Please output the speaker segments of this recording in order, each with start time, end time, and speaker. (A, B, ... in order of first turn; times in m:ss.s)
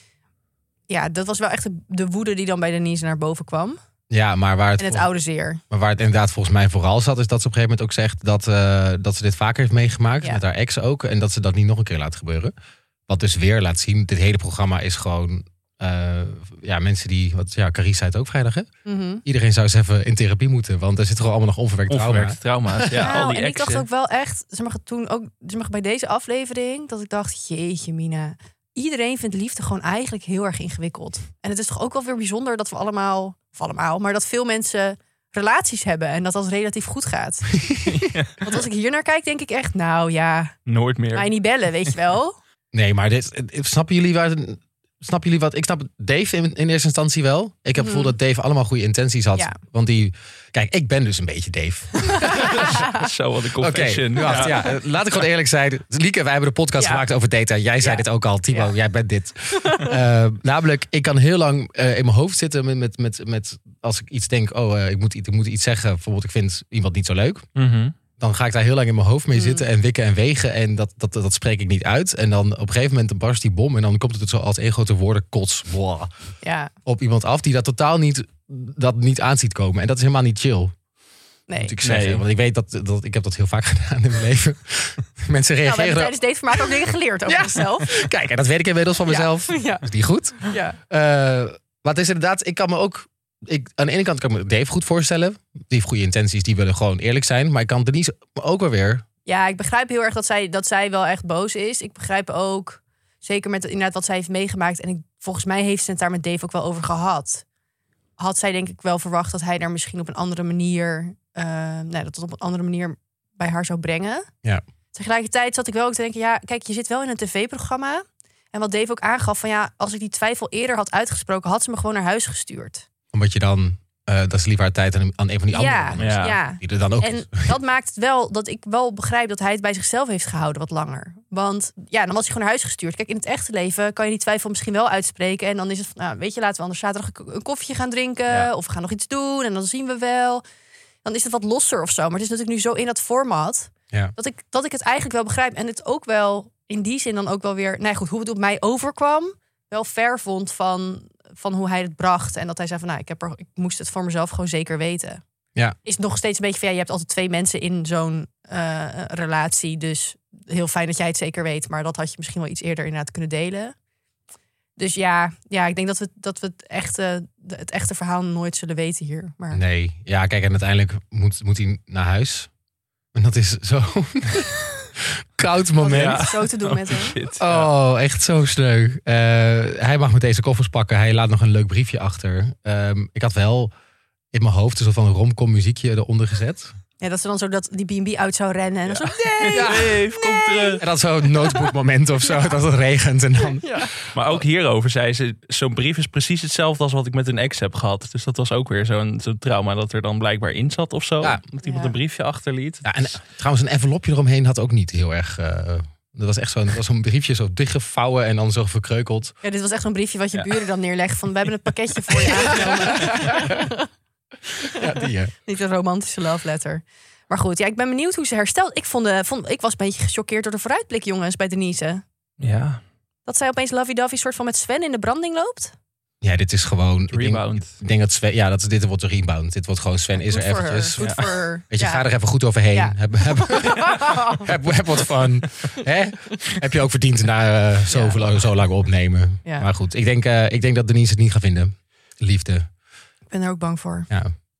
0:00.9-0:03.8 A
0:04.1-0:05.1 B
0:04.8-0:05.6 A
0:05.7-0:12.5 B
0:13.1-0:18.7 B
0:18.8-0:19.2 A
0:19.2-0:23.2 B
0:21.9-0:23.8 C
0:22.9-0:37.8 A
0:37.8-0:38.5 C
0:38.4-0:40.6 A
0:40.6-0:41.3 C
0:41.1-0:42.4 A
0:42.7-0:52.9 B
0:47.8-0:48.1 A
0:52.1-0:52.9 A
0:52.4-0:54.6 C
0:53.6-1:07.5 B
0:54.2-0:54.6 A
0:56.8-0:57.0 A
0:57.8-0:58.7 A
0:59.6-1:00.0 A
1:07.6-1:07.9 C
1:08.2-1:16.1 B
1:09.3-1:09.7 A
1:16.4-1:16.7 A
1:16.8-1:20.7 B
1:21.5-1:21.7 A
1:21.6-1:26.1 B
1:21.8-1:22.2 C
1:25.6-1:28.0 A
1:27.2-1:39.0 B
1:29.0-1:29.8 A
1:30.4-1:30.8 A
1:39.2-1:47.4 A
1:48.2-1:54.3 A
1:54.9-2:02.8 A
2:03.1-2:07.6 B
2:05.5-2:20.4 A
2:06.0-2:06.4 C
2:21.0-2:35.2 A
2:35.8-2:43.7 A
2:44.8-2:49.6 A
2:49.5-2:52.5 B
2:53.1-2:56.3 B
2:55.8-2:57.2 A
2:55.8-2:57.7 C
2:57.4-3:03.7 B
3:04.3-3:06.7 B
3:07.0-3:11.7 A
3:08.9-3:10.8 C
3:09.5-3:10.0 B
3:10.8-3:13.9 B
3:13.4-3:13.9 A
3:14.1-3:22.9 C
3:21.6-3:22.0 A
3:22.8-3:29.3 B
3:29.4-3:33.9 A
3:30.3-3:30.6 C
3:32.2-3:33.6 B
3:34.7-3:42.0 A
3:34.8-3:35.3 B
3:42.4-3:42.8 C
3:43.2-3:45.7 A
3:46.2-3:51.1 B
3:47.1-3:47.7 C
3:50.1-3:52.1 A
3:51.0-3:51.3 C
3:51.7-4:02.7 B
3:52.7-3:54.5 A
3:57.9-3:58.3 A
4:03.3-4:04.1 A